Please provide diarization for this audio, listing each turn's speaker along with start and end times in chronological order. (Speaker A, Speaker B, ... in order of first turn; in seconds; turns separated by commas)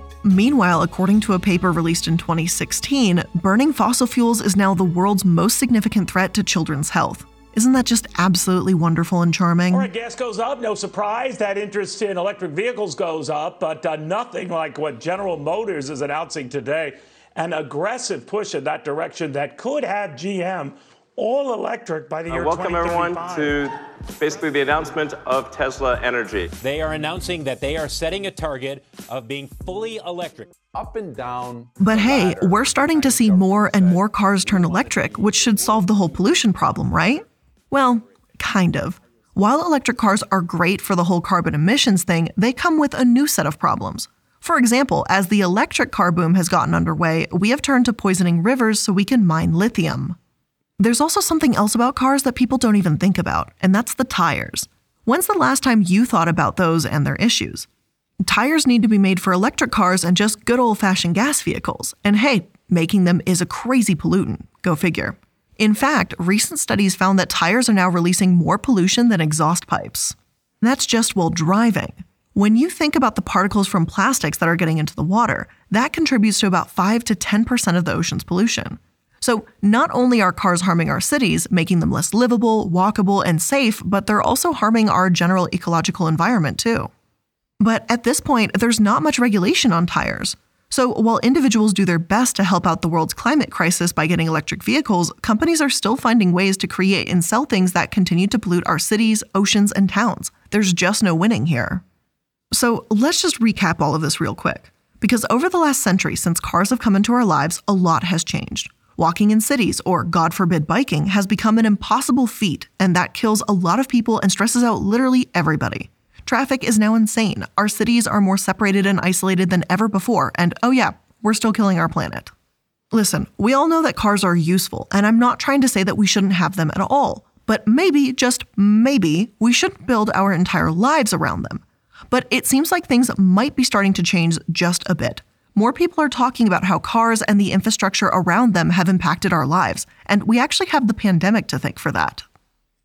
Speaker A: 0.2-9.9, Speaker B: 9.7-23.6, Speaker C: 22.3-26.5, Speaker D: 26.6-30.5, Speaker E: 30.7-36.0, Speaker A: 31.8-50.2, Speaker A: 50.8-57.7, Speaker A: 58.2-86.9, Speaker A: 87.6-101.8, Speaker A: 102.5-122.3, Speaker A: 122.9-142.2